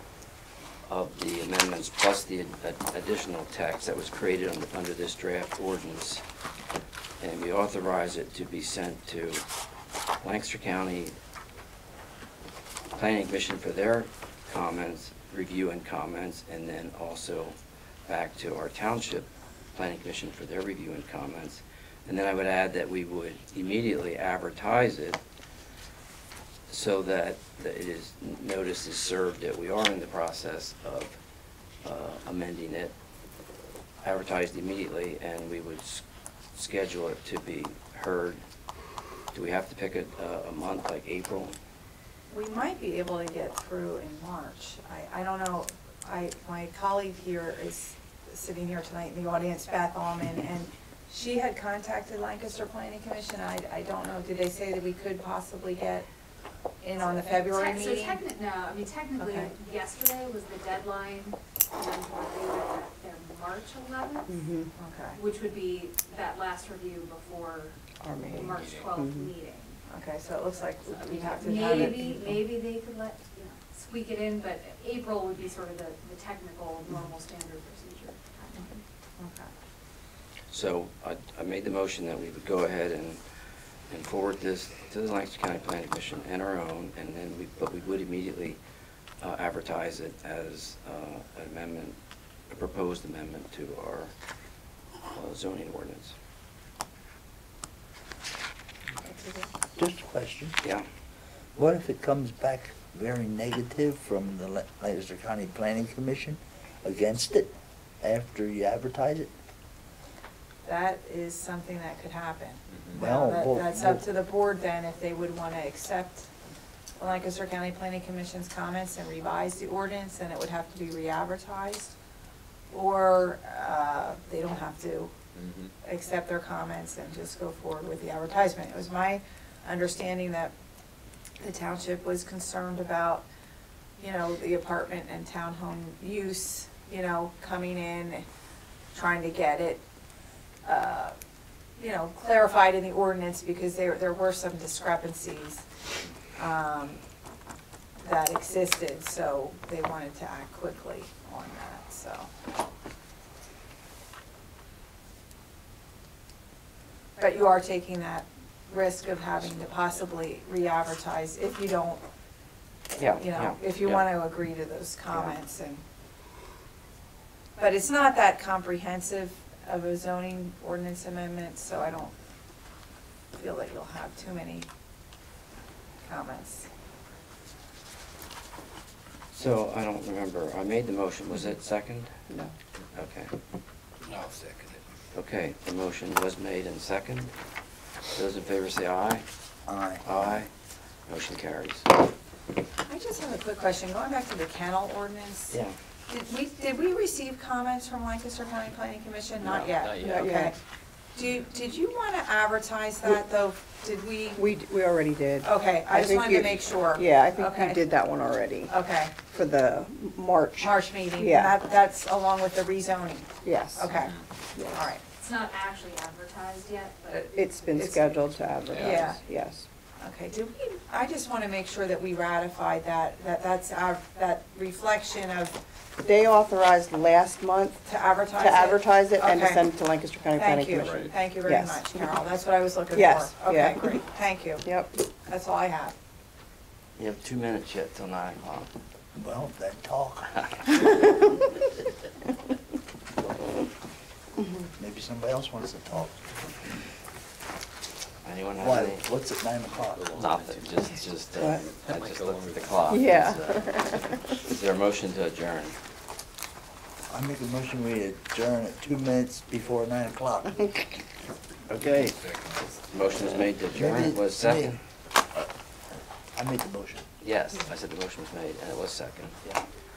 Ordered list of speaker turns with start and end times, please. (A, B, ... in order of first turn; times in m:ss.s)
0:00.8-0:06.2 A
0:07.2-0:09.4 A
0:10.2-0:11.2 A
0:12.9-0:25.2 A
0:26.7-0:31.2 A
0:31.8-0:32.9 A
0:34.0-0:38.4 A
0:39.3-0:41.6 A
0:42.3-0:56.1 B
0:56.8-0:58.2 B
0:57.4-1:04.4 C
0:59.2-0:59.5 B
1:04.3-1:04.7 D
1:04.7-1:05.2 B
1:05.1-1:09.8 C
1:08.0-1:09.3 D
1:09.9-1:12.3 B
1:10.9-1:18.8 C
1:19.2-1:19.5 B
1:20.5-1:23.2 A
1:23.9-1:28.6 A
1:29.2-1:32.0 A
1:32.5-1:34.1 A
1:35.1-1:36.1 A
1:39.0-1:39.5 B
1:39.8-1:40.6 E
1:41.6-1:49.3 E
1:50.6-1:56.3 B
1:52.7-1:53.0 F
1:52.9-1:54.0 E
1:57.0-2:01.9 B
2:02.7-2:05.1 B
2:05.3-2:05.7 F
2:05.8-2:10.5 B
2:11.4-2:13.2 B
2:14.0-2:18.2 B
2:18.9-2:19.8 B
2:20.6-2:21.1 B
2:21.8-2:25.6 B
2:26.4-2:27.0 B
2:28.0-2:32.3 B
2:37.2-2:42.0 B
2:43.0-2:44.1 A
2:43.1-2:45.8 B
2:45.1-2:45.4 A
2:47.6-2:52.1 B
2:53.3-2:54.7 B
2:56.1-2:56.7 B
2:59.3-3:02.1 A
3:02.3-3:02.5 D
3:02.9-3:03.3 A
3:04.0-3:04.8 F
3:05.1-3:07.3 A
3:08.1-3:09.2 A
3:09.7-3:10.4 E
3:10.0-3:10.5 A
3:11.1-3:11.9 A
3:12.8-3:20.5 B
3:15.5-3:15.7 A
3:19.4-3:20.2 A
3:20.0-3:20.6 D
3:21.1-3:24.4 B
3:24.3-3:31.5 D
3:25.4-3:27.9 B
3:28.7-3:29.2 B
3:30.6-3:34.2 B
3:33.4-3:33.9 D
3:34.5-3:34.8 D
3:34.7-3:35.0 B
3:35.2-3:37.3 C
3:37.1-3:38.2 B
3:37.3-3:39.6 D
3:38.7-3:39.1 F
3:38.8-3:39.2 B
3:40.0-3:45.6 B
3:46.0-3:52.2 D
3:47.8-3:49.6 B
3:50.3-3:54.6 B
3:50.8-3:51.1 F
3:52.9-3:54.0 D
3:54.6-3:55.0 D
3:55.2-3:56.0 B
3:57.0-3:58.7 A
3:59.2-4:00.3 E
4:04.8-4:06.2 E
4:08.2-4:09.0 A
4:08.6-4:10.2 E
4:09.7-4:10.8 F
4:10.1-4:15.8 A
4:11.3-4:11.7 D
4:11.6-4:13.0 F
4:12.9-4:14.3 D
4:17.1-4:20.7 E
4:21.7-4:22.2 A
4:21.7-4:22.8 F
4:22.8-4:24.8 A
4:23.7-4:24.8 E
4:26.3-4:27.0 E
4:27.2-4:29.4 A